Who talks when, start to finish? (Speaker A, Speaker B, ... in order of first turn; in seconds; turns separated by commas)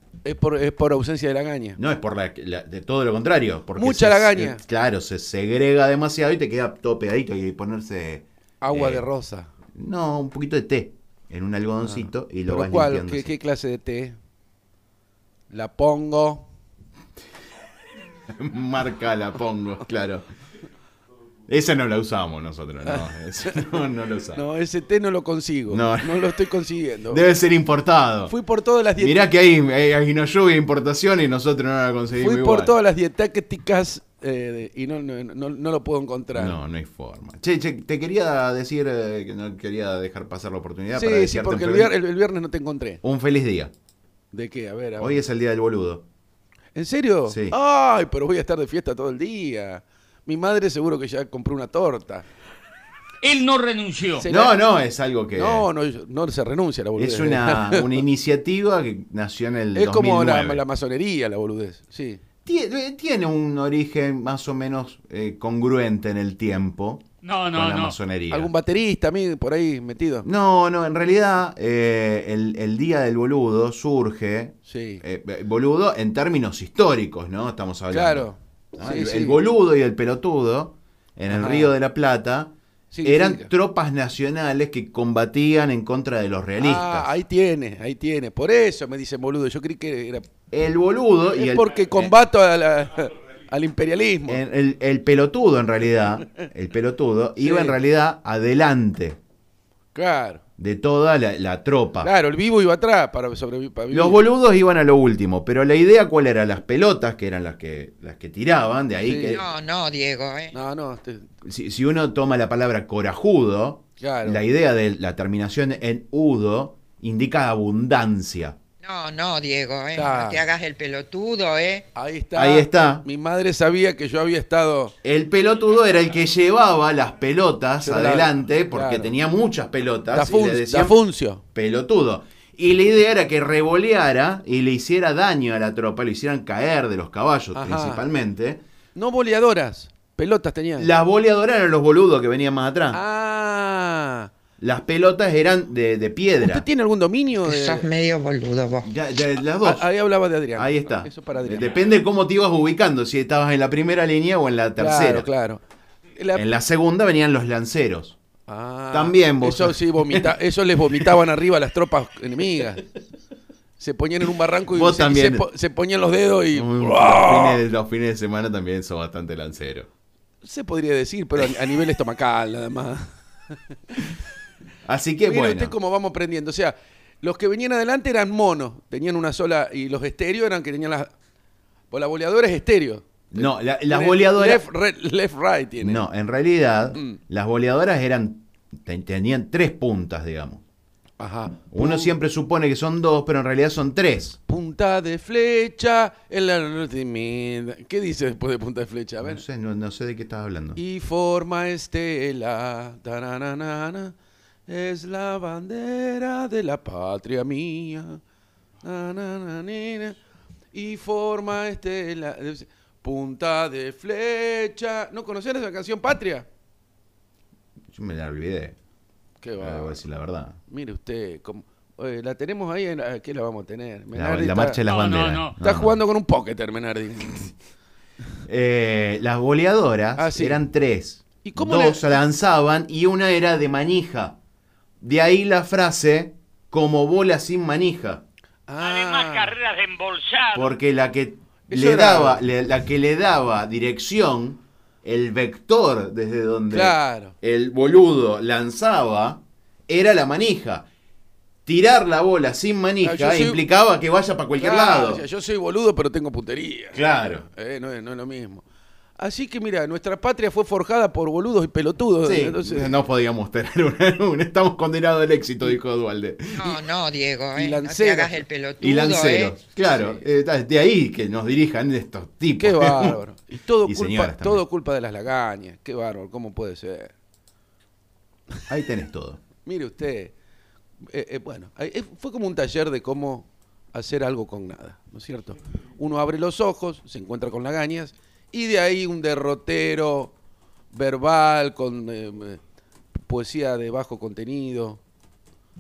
Speaker A: 0.2-1.8, Speaker B: 1.8-9.1, Speaker A: 3.8-4.6, Speaker A: 8.6-9.5, Speaker B: 9.8-13.3, Speaker A: 11.8-14.2, Speaker A: 15.5-16.5, Speaker B: 18.3-20.2, Speaker B: 21.5-24.4, Speaker A: 22.9-23.6, Speaker A: 24.3-27.2, Speaker B: 25.7-26.3, Speaker B: 27.1-28.4, Speaker A: 28.3-29.2, Speaker B: 29.0-32.8, Speaker A: 32.2-36.6, Speaker B: 36.4-42.0, Speaker A: 41.0-43.0, Speaker B: 43.0-43.7, Speaker A: 44.3-45.2, Speaker B: 45.0-46.1, Speaker A: 46.8-52.3, Speaker B: 47.3-47.6, Speaker C: 53.2-54.2, Speaker A: 54.2-54.6, Speaker B: 54.2-55.7, Speaker A: 55.4-58.0, Speaker B: 57.0-60.6, Speaker A: 59.8-62.2, Speaker B: 62.5-68.5, Speaker C: 67.2-68.0, Speaker A: 68.3-70.3, Speaker B: 70.2-82.5, Speaker A: 74.7-75.0, Speaker A: 77.9-79.4, Speaker A: 81.3-81.7, Speaker A: 82.9-83.5, Speaker B: 83.0-87.1, Speaker A: 86.6-90.3, Speaker B: 90.5-92.1, Speaker A: 91.3-94.4, Speaker B: 94.3-99.2, Speaker A: 97.4-97.8, Speaker A: 99.9-100.4, Speaker B: 100.6-102.1, Speaker A: 102.0-104.2, Speaker B: 103.9-109.5, Speaker A: 109.0-109.4, Speaker D: 109.3-110.5, Speaker A: 110.5-111.3, Speaker B: 111.4-118.6, Speaker A: 114.0-114.4, Speaker D: 118.8-121.9, Speaker A: 120.0-120.5, Speaker A: 121.9-125.0, Speaker B: 122.3-123.0, Speaker B: 125.0-131.0, Speaker A: 127.8-129.2, Speaker A: 130.1-131.4, Speaker B: 131.5-138.6, Speaker A: 137.6-138.1, Speaker A: 138.9-140.9, Speaker B: 140.8-143.0, Speaker A: 142.9-144.3, Speaker B: 144.6-146.7, Speaker A: 146.4-147.9, Speaker D: 147.4-148.9, Speaker B: 148.8-149.9, Speaker A: 149.6-151.9, Speaker B: 150.6-155.3, Speaker A: 154.8-155.6, Speaker A: 156.2-156.5, Speaker B: 156.3-158.2, Speaker A: 158.5-162.8, Speaker B: 158.9-160.3, Speaker A: 163.8-167.6, Speaker B: 164.7-165.5, Speaker B: 166.5-169.9, Speaker A: 170.4-173.6, Speaker B: 174.9-175.8, Speaker A: 175.3-181.1, Speaker A: 181.9-186.1, Speaker B: 183.3-184.7, Speaker B: 185.8-190.6, Speaker A: 186.9-187.2, Speaker A: 191.2-192.1, Speaker B: 191.7-194.4, Speaker A: 194.5-199.4, Speaker B: 199.2-200.8, Speaker A: 200.8-204.2, Speaker A: 204.7-208.2, Speaker A: 208.8-210.2, Speaker A: 210.7-216.5, Speaker B: 217.9-218.8, Speaker A: 219.4-220.0, Speaker B: 219.6-220.6, Speaker A: 220.7-224.8, Speaker B: 224.1-226.0, Speaker C: 224.9-225.6, Speaker A: 225.6-227.5, Speaker B: 228.5-234.4, Speaker A: 230.2-230.6, Speaker A: 231.4-232.2, Speaker B: 235.0-238.2, Speaker A: 238.7-239.6, Speaker C: 238.8-240.7, Speaker B: 240.5-250.9, Speaker A: 241.7-242.4, Speaker A: 246.7-247.3, Speaker B: 251.7-255.2, Speaker A: 253.0-253.6, Speaker A: 254.6-258.6, Speaker B: 256.9-257.4, Speaker A: 259.2-262.9, Speaker B: 262.2-266.8, Speaker D: 266.6-269.6, Speaker A: 267.6-268.4, Speaker B: 268.8-273.2, Speaker A: 269.8-270.2, Speaker A: 272.6-277.1, Speaker B: 273.8-274.6, Speaker B: 278.7-279.4, Speaker A: 279.6-280.3, Speaker A: 281.0-290.3, Speaker A: 290.9-292.6, Speaker A: 293.3-295.0